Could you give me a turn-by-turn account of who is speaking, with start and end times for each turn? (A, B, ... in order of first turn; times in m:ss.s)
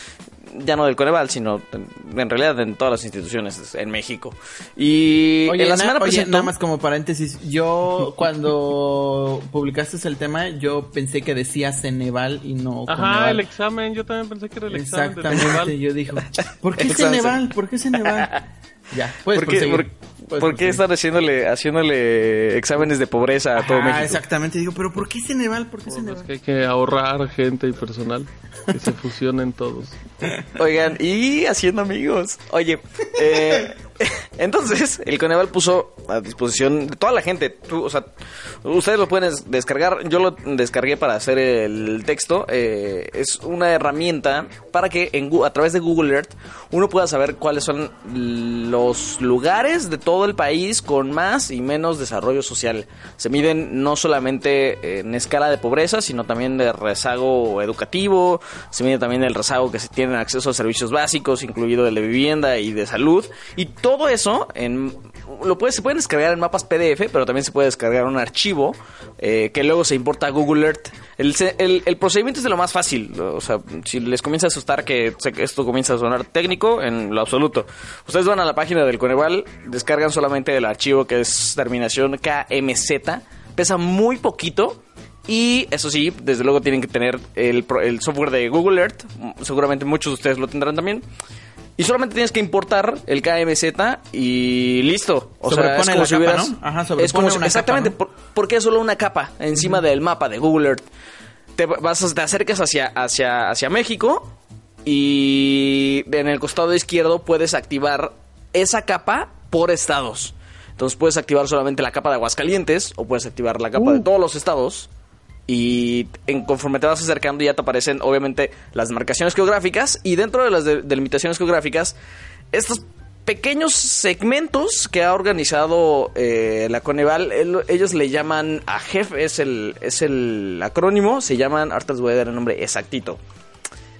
0:00.5-0:06.5 A
0:05.4-0:13.4 B
0:12.9-0:15.8 C
0:14.7-0:18.4 B
0:16.8-0:17.4 A
0:18.1-0:18.4 A
0:18.9-0:20.8 B
0:19.3-0:24.2 A
0:23.6-0:26.3 B
0:25.9-0:30.0 C
0:30.6-0:38.1 A
0:38.6-1:31.0 A
1:31.8-1:40.8 A
1:35.4-1:37.9 B
1:41.6-1:54.9 A
1:53.8-1:54.0 C
1:55.5-2:02.0 A
2:02.5-2:13.2 A